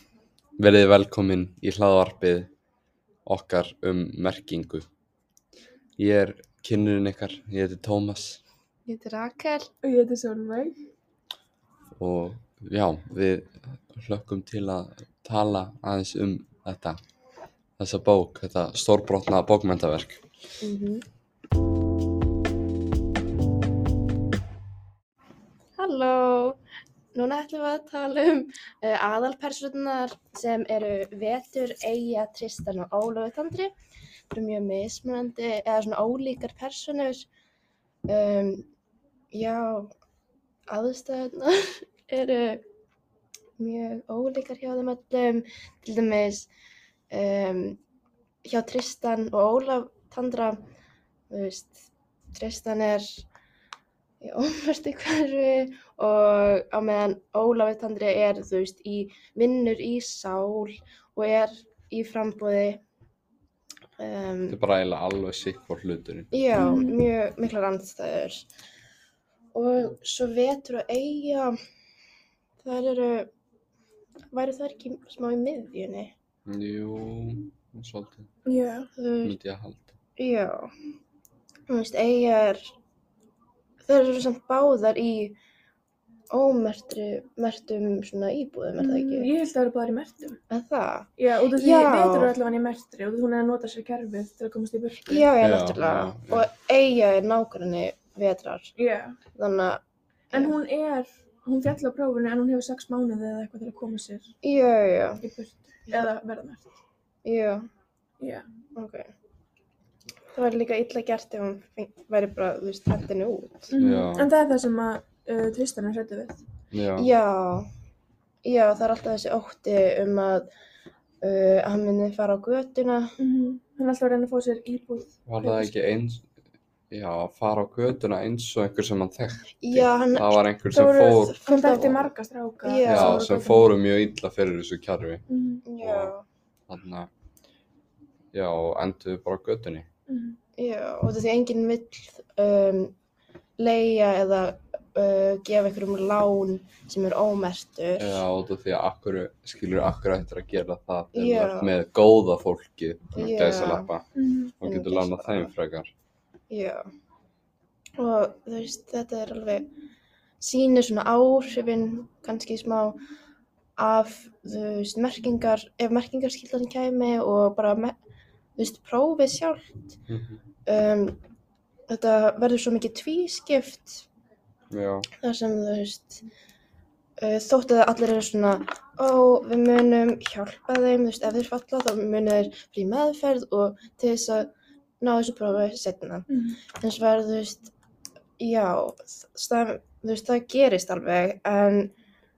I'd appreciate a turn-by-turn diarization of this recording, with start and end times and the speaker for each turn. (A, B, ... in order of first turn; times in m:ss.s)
0:00.6-0:02.5 A
0:03.3-0:04.9 A
0:06.0-0:08.4 A
0:08.9-0:09.7 B
0:09.8-0:10.8 C
0:12.0-0:17.0 A
0:17.8-0:20.3 A
0:20.6-0:21.0 B
0:25.8-0:26.6 B
0:27.1-0:33.7 B
0:34.3-0:37.3 B
0:38.1-0:38.7 B
0:39.3-0:39.9 B
0:40.7-0:42.6 B
0:43.6-0:46.5 B
0:47.1-0:47.8 B
0:48.4-0:50.6 B
0:51.3-0:53.2 B
0:54.2-1:02.8 B
1:04.0-1:04.6 B
1:04.5-1:06.3 A
1:06.3-1:08.5 B
1:06.6-1:07.0 C
1:09.5-1:11.6 B
1:12.6-1:13.3 B
1:14.3-1:16.1 B
1:16.5-1:18.3 A
1:18.5-1:18.9 C
1:18.9-1:19.4 B
1:19.2-1:20.0 A
1:20.2-1:20.7 B
1:21.7-1:22.8 B
1:23.8-1:25.4 B
1:26.3-1:29.3 B
1:28.8-1:30.4 C
1:30.5-1:32.4 B
1:31.2-1:35.3 C
1:35.0-1:38.7 B
1:35.4-1:36.5 A
1:38.8-1:39.2 C
1:39.3-1:40.6 B
1:40.3-1:44.3 C
1:44.4-1:45.2 B
1:45.2-1:46.8 C
1:47.2-1:47.7 B
1:48.2-1:48.5 C
1:48.8-1:49.1 B
1:50.3-1:53.7 B
1:53.7-1:56.4 C
1:53.8-1:54.3 A
1:56.7-1:57.1 A
1:57.0-1:57.7 B
1:58.4-2:00.5 B
2:01.2-2:03.1 B
2:03.2-2:05.8 C
2:05.3-2:06.3 A
2:06.9-2:11.4 A
2:09.6-2:10.4 B
2:10.7-2:13.7 C
2:11.2-2:12.1 B
2:12.6-2:13.3 B
2:12.8-2:15.2 A
2:15.3-2:15.6 C
2:15.6-2:16.2 B
2:15.8-2:16.1 A
2:16.7-2:17.1 A
2:18.3-2:19.9 A
2:20.1-2:20.4 C
2:20.6-2:23.0 B
2:23.6-2:28.2 B
2:28.0-2:34.1 A
2:31.1-2:31.7 B
2:33.2-2:33.9 B
2:34.2-2:34.5 C
2:34.6-2:35.9 A
2:34.6-2:35.5 B
2:36.5-2:36.9 B
2:38.0-2:39.7 B
2:40.4-2:43.0 B
2:43.8-2:48.0 B
2:48.6-2:50.0 B
2:50.1-2:50.4 A
2:50.7-2:51.2 B
2:51.9-2:54.1 B
2:54.7-2:55.1 A
2:55.2-2:56.2 B
2:57.2-3:07.7 B
3:06.3-3:06.6 C
3:08.4-3:11.9 B